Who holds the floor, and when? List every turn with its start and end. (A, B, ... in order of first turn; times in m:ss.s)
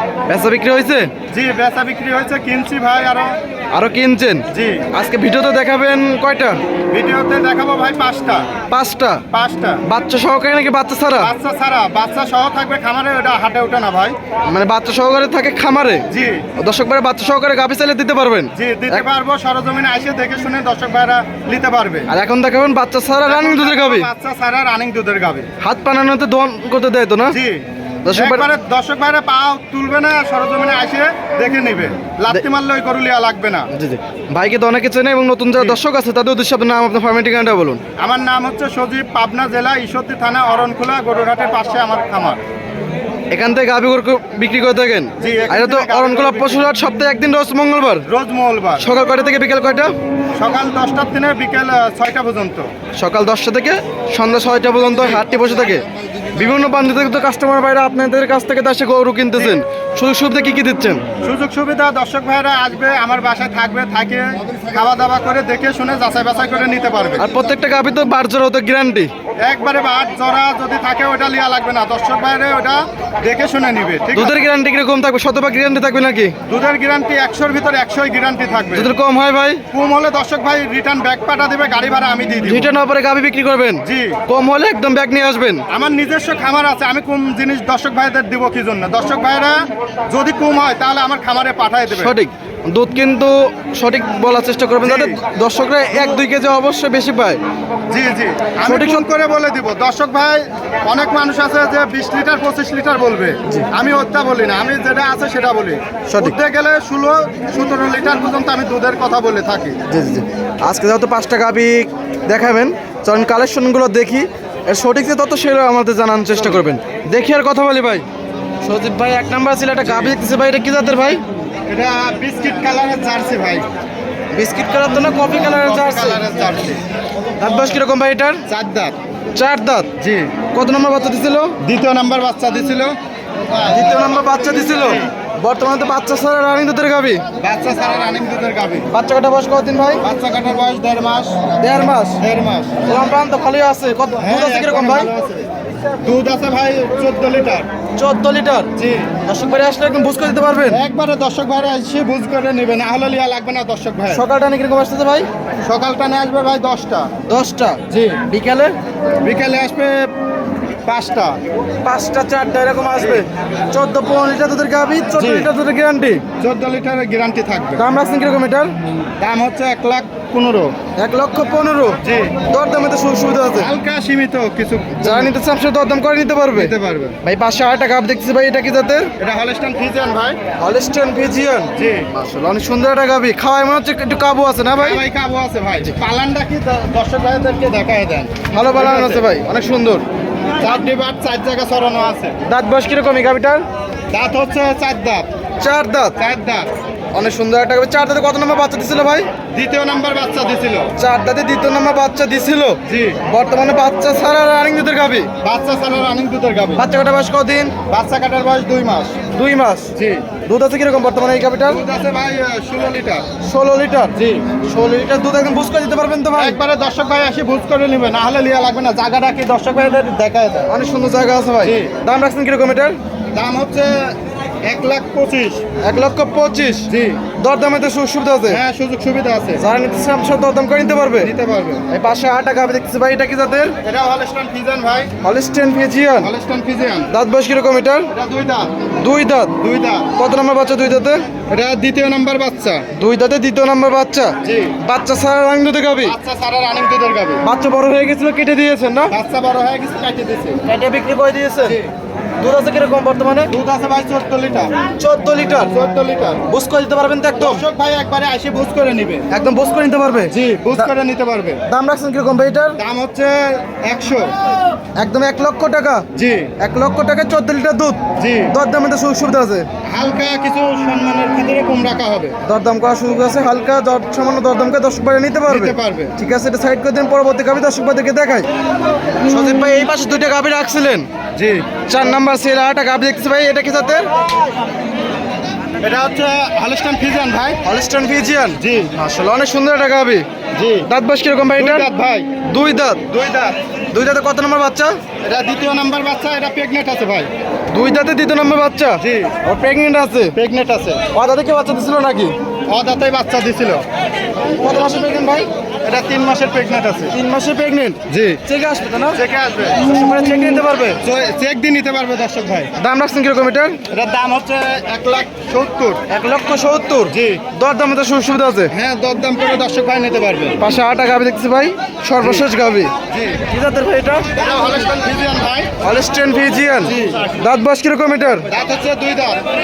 0:00.3-0:01.1 A
0:01.3-0:03.3 B
0:03.7-0:06.6 A
0:04.5-0:04.8 B
0:06.9-0:08.5 B
0:08.7-0:09.2 A
0:09.3-0:09.8 B
0:09.8-0:11.3 A
0:11.2-0:14.2 B
0:14.5-0:16.0 A
0:16.1-0:16.5 B
0:16.6-0:19.0 A
0:18.5-0:22.1 B
0:22.1-0:24.1 A
0:23.3-0:25.5 B
0:25.6-0:27.3 A
0:27.3-0:33.7 B
0:28.0-0:28.4 A
0:33.7-0:37.8 A
0:38.0-0:42.4 B
0:43.3-0:48.0 A
0:45.2-0:46.6 B
0:48.1-0:48.9 B
0:48.8-0:49.9 A
0:50.3-0:52.7 B
0:53.0-1:01.0 A
0:54.9-0:55.2 B
1:01.2-1:07.3 B
1:07.2-1:09.1 A
1:09.4-1:14.4 B
1:14.1-1:16.3 A
1:16.5-1:18.9 B
1:18.7-1:19.6 A
1:19.7-1:22.7 B
1:22.4-1:25.6 A
1:23.8-1:24.2 B
1:25.7-1:32.1 B
1:31.9-1:37.4 A
1:34.8-1:35.2 B
1:37.9-1:49.8 B
1:38.6-1:39.1 A
1:46.1-1:46.4 A
1:49.9-1:58.0 A
1:58.6-2:01.2 A
1:59.8-2:00.1 B
2:01.7-2:03.6 B
2:04.3-2:06.2 A
2:05.2-2:06.8 B
2:07.4-2:08.4 A
2:08.5-2:08.9 B
2:09.3-2:09.9 A
2:10.0-2:10.3 B
2:10.5-2:11.5 A
2:11.6-2:13.0 B
2:13.5-2:15.1 B
2:13.7-2:17.2 A
2:17.4-2:18.9 B
2:18.9-2:20.0 A
2:20.0-2:21.5 B
2:21.6-2:22.2 A
2:22.2-2:22.8 B
2:22.9-2:25.1 A
2:24.2-2:25.5 B
2:26.0-2:27.7 B
2:28.0-2:28.7 A
2:28.8-2:29.1 B
2:29.2-2:30.8 A
2:30.7-2:34.2 B
2:34.1-2:35.3 A
2:35.6-2:37.1 B
2:37.3-2:38.7 A
2:37.9-2:38.2 B
2:39.2-2:40.1 B
2:40.9-2:41.4 B
2:41.8-2:46.2 A
2:43.0-2:43.2 B
2:45.2-2:45.5 B
2:46.4-2:47.8 B
2:47.8-2:48.7 A
2:49.2-2:50.7 B
2:51.0-2:53.7 A
2:52.0-2:52.4 B
2:53.5-2:55.3 B
2:55.0-2:59.1 A
2:56.5-2:57.2 B
2:59.2-3:00.4 B
3:00.6-3:05.0 A
3:01.7-3:02.1 B
3:04.8-3:09.2 B
3:08.5-3:10.0 A
3:10.6-3:12.4 B
3:12.4-3:13.6 A
3:14.1-3:15.3 B
3:15.6-3:16.2 A
3:16.2-3:16.7 B
3:17.1-3:19.3 A
3:19.5-3:20.9 B
3:21.0-3:25.3 A
3:22.9-3:23.2 B
3:25.4-3:26.8 B
3:26.8-3:27.7 A
3:27.9-3:29.2 B
3:29.3-3:29.9 A
3:29.9-3:30.2 B
3:30.4-3:31.8 A
3:31.7-3:33.3 B
3:33.4-3:34.1 A
3:34.1-3:34.4 B
3:34.6-3:36.6 A
3:36.4-3:40.7 B
3:40.7-3:43.0 A
3:41.6-3:41.9 B
3:43.3-3:45.6 B
3:45.8-3:46.9 A
3:46.9-3:47.2 B
3:47.4-3:48.6 A
3:48.5-3:49.6 B
3:49.6-3:51.3 A
3:51.2-3:51.8 B
3:51.9-3:53.7 A
3:53.8-3:55.1 B
3:55.2-3:56.3 A
3:56.2-3:57.1 B
3:57.1-3:58.1 A
3:58.1-3:58.7 B
3:59.0-3:59.5 A
3:59.6-4:00.1 B
4:00.2-4:01.2 A
4:01.5-4:02.8 B
4:02.9-4:06.1 A
4:04.4-4:04.8 B
4:06.0-4:07.4 B
4:07.4-4:09.1 A
4:09.1-4:10.6 B
4:10.6-4:11.8 A
4:11.6-4:11.9 B
4:12.4-4:13.5 A
4:13.5-4:14.7 B
4:15.0-4:15.7 A
4:15.6-4:16.5 B
4:16.5-4:17.6 A
4:17.4-4:19.3 B
4:19.3-4:20.9 A
4:20.3-4:21.6 B
4:21.7-4:22.8 A
4:22.8-4:24.3 B
4:25.0-4:26.0 A
4:26.1-4:26.5 B
4:26.6-4:29.7 A
4:28.2-4:28.5 B
4:29.8-4:32.4 B
4:32.4-4:38.5 A
4:35.5-4:36.1 B
4:39.2-4:41.0 A
4:41.4-4:41.7 B
4:41.9-4:44.1 A
4:45.8-4:47.6 B
4:47.6-4:50.2 A
4:48.6-4:48.9 B
4:50.6-4:50.9 B
4:50.9-4:51.9 A
4:51.6-4:52.3 B
4:52.4-4:53.0 A
4:53.1-4:53.6 B
4:53.9-4:54.9 A
4:55.2-4:57.3 B
4:57.7-5:00.3 A
4:59.0-4:59.3 B
5:00.3-5:01.0 B
5:01.1-5:02.4 A
5:02.7-5:03.8 B
5:04.6-5:05.5 A
5:05.8-5:07.1 B
5:07.1-5:09.2 A
5:08.1-5:08.4 B
5:09.1-5:09.8 B
5:09.8-5:11.0 A
5:11.0-5:12.7 B
5:12.8-5:13.8 A
5:13.9-5:16.0 B
5:16.1-5:18.7 A
5:17.1-5:17.4 B
5:18.7-5:20.6 B
5:20.6-5:22.9 A
5:22.2-5:22.4 B
5:23.1-5:23.4 B
5:23.5-5:24.3 A
5:24.4-5:25.7 B
5:25.8-5:28.5 A
5:26.8-5:27.3 B
5:28.5-5:29.4 B